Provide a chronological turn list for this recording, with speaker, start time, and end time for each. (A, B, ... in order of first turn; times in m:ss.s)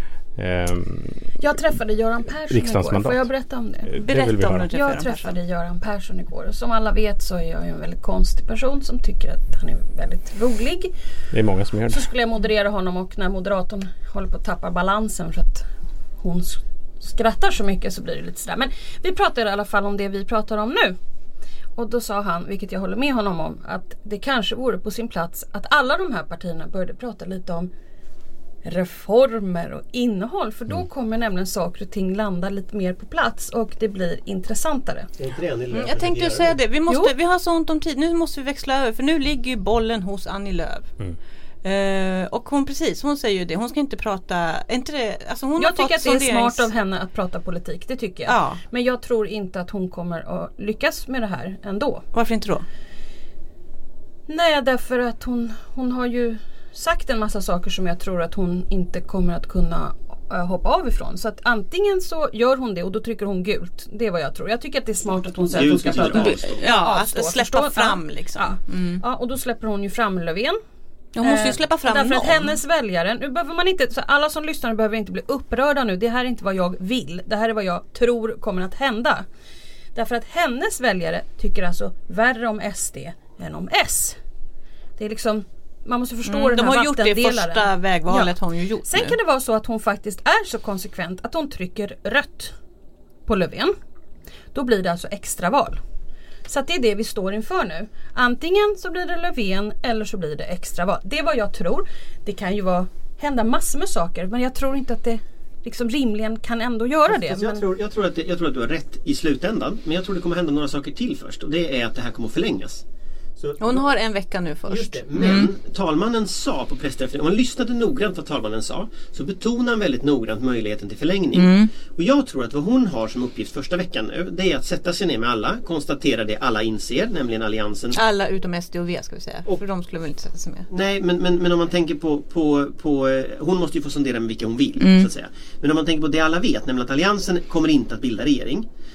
0:00.4-0:01.3 A
0:01.4-0:10.9 B
0:02.5-0:03.3 A
0:03.9-0:04.7 A
0:04.0-0:05.4 C
0:11.3-0:12.1 A
0:11.9-0:15.7 B
0:16.2-0:21.0 B
0:21.8-0:27.7 B
0:28.6-0:35.1 B
0:35.2-0:36.6 D
0:35.7-0:40.9 C
0:36.9-0:37.1 B
0:41.6-0:46.7 C
0:45.6-0:52.0 B
0:48.3-0:48.6 C
0:52.1-0:52.6 C
0:54.3-1:10.6 B
1:05.5-1:06.6 D
1:05.9-1:09.0 C
1:11.2-1:12.5 C
1:11.2-1:19.3 B
1:20.0-1:24.2 B
1:25.0-1:28.3 B
1:26.3-1:29.2 C
1:28.9-1:32.5 B
1:33.3-1:33.7 B
1:34.5-1:35.8 B
1:36.5-1:47.6 B
1:47.1-1:52.8 D
1:53.4-1:53.9 D
1:53.6-1:55.5 C
1:54.7-2:08.0 D
2:01.3-2:01.7 C
2:08.0-2:10.7 C
2:10.7-2:18.7 D
2:14.8-2:15.1 C